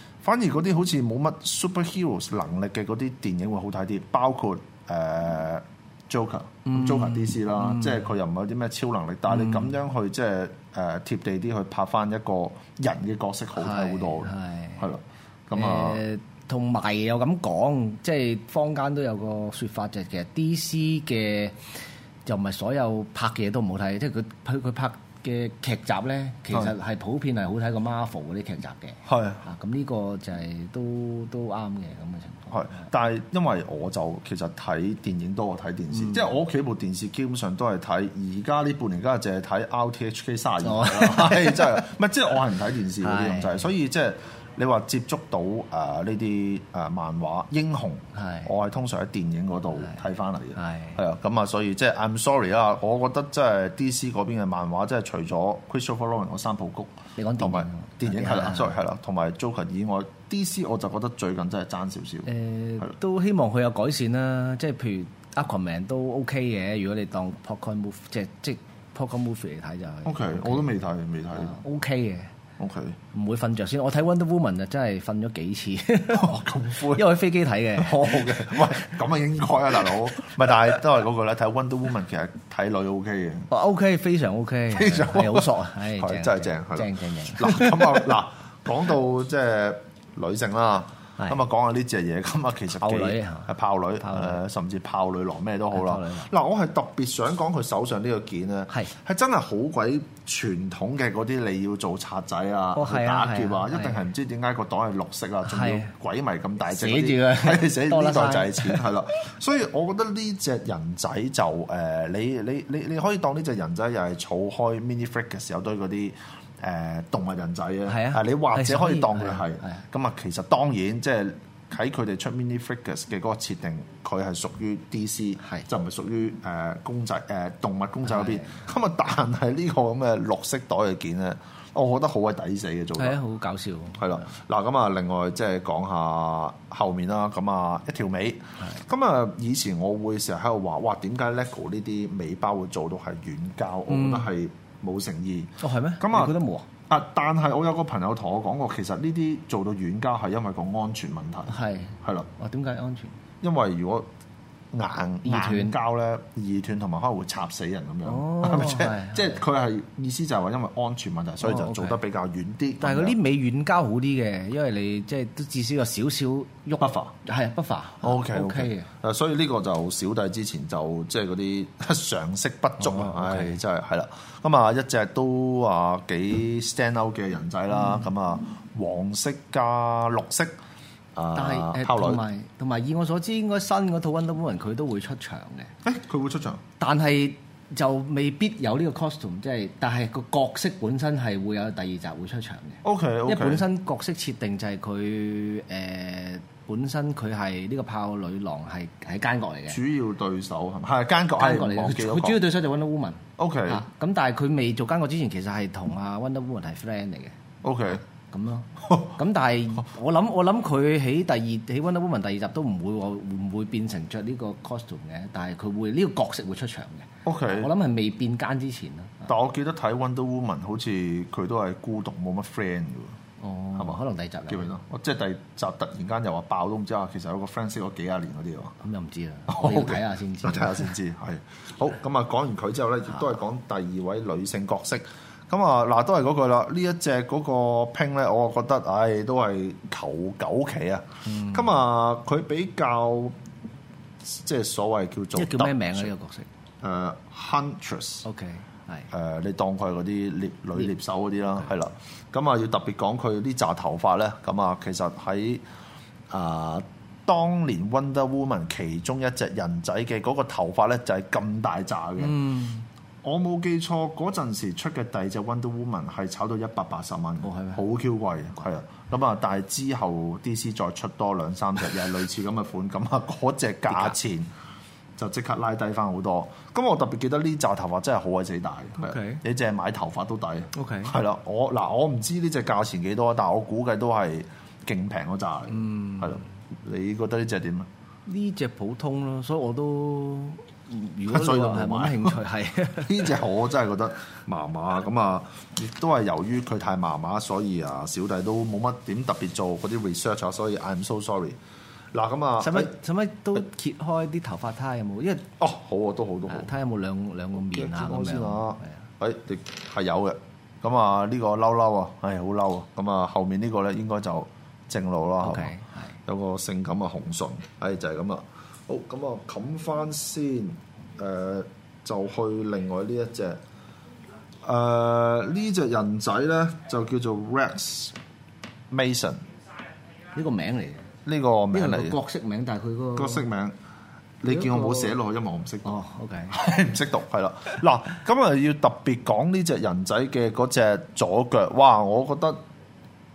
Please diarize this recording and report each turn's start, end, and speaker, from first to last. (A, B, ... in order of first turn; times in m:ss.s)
0:00.2-0:16.0 A
0:06.6-0:08.1 B
0:09.3-0:09.8 B
0:13.6-0:14.9 B
0:15.5-0:32.9 B
0:29.0-0:29.4 A
0:32.5-1:02.9 A
0:35.9-0:36.2 B
0:40.6-0:41.8 B
0:43.0-0:43.6 B
0:48.1-0:48.5 B
0:50.6-0:51.0 B
0:57.2-0:58.7 B
1:02.3-1:10.7 B
1:10.0-1:11.6 A
1:11.3-1:12.3 B
1:12.6-1:13.0 A
1:13.1-1:18.9 B
1:16.1-1:17.1 A
1:17.8-1:23.5 A
1:19.8-1:20.2 B
1:23.5-1:28.1 B
1:24.7-2:13.2 A
1:32.8-1:33.5 B
1:34.0-1:34.4 B
1:35.7-1:36.3 B
1:42.7-1:44.0 B
1:45.4-1:45.9 B
1:46.7-1:48.8 B
1:57.9-1:59.8 B
2:08.0-2:08.6 B
2:13.0-2:14.3 B
2:14.0-2:26.3 A
2:23.9-2:24.3 B
2:25.6-2:26.6 B
2:26.9-2:32.3 A
2:31.5-2:33.1 B
2:33.4-2:34.1 A
2:34.7-2:43.2 A
2:35.2-2:35.7 B
2:38.0-2:39.4 B
2:41.4-2:42.0 B
2:42.8-2:48.9 B
2:46.8-2:47.1 A
2:48.0-3:00.5 A
2:52.8-2:53.6 B
3:01.1-3:02.2 A
3:01.3-3:05.7 B
3:05.8-3:06.6 A
3:06.8-3:19.8 B
3:12.8-3:13.6 A
3:19.7-3:22.4 A
3:21.4-3:27.4 B
3:23.4-3:23.8 A
3:27.6-3:28.0 A
3:28.3-3:39.3 B
3:28.8-3:29.1 A
3:37.2-3:37.7 A
3:39.3-3:43.2 A
3:43.4-3:44.7 B
3:43.8-3:48.8 A
3:48.8-3:50.9 B
3:49.5-4:03.4 A
4:01.2-4:01.8 B
4:04.2-4:06.1 A
4:05.3-4:06.5 B
4:06.8-4:08.2 A
4:08.2-4:09.1 B
4:09.1-4:15.6 A
4:16.3-4:22.4 A
4:22.2-4:22.8 B
4:23.2-4:34.5 A
4:27.4-4:27.8 B
4:33.9-4:34.2 B
4:35.2-4:47.9 A
4:39.0-4:39.4 B
4:40.7-4:41.1 B
4:45.7-4:46.4 B
4:48.2-4:53.3 B
4:51.3-4:52.4 A
4:53.0-5:01.6 A
5:02.1-5:02.9 A
5:02.6-5:05.5 B
5:05.6-5:06.7 A
5:06.5-5:09.0 B
5:07.7-5:15.7 A
5:15.4-5:16.1 B
5:16.2-5:23.6 A
5:24.6-5:28.1 A
5:28.9-5:29.4 A
5:30.3-5:31.0 B
5:31.2-5:32.2 A
5:31.7-5:33.4 B
5:33.1-5:33.7 A
5:34.4-5:42.6 A
5:34.5-5:35.1 B
5:35.8-5:36.6 B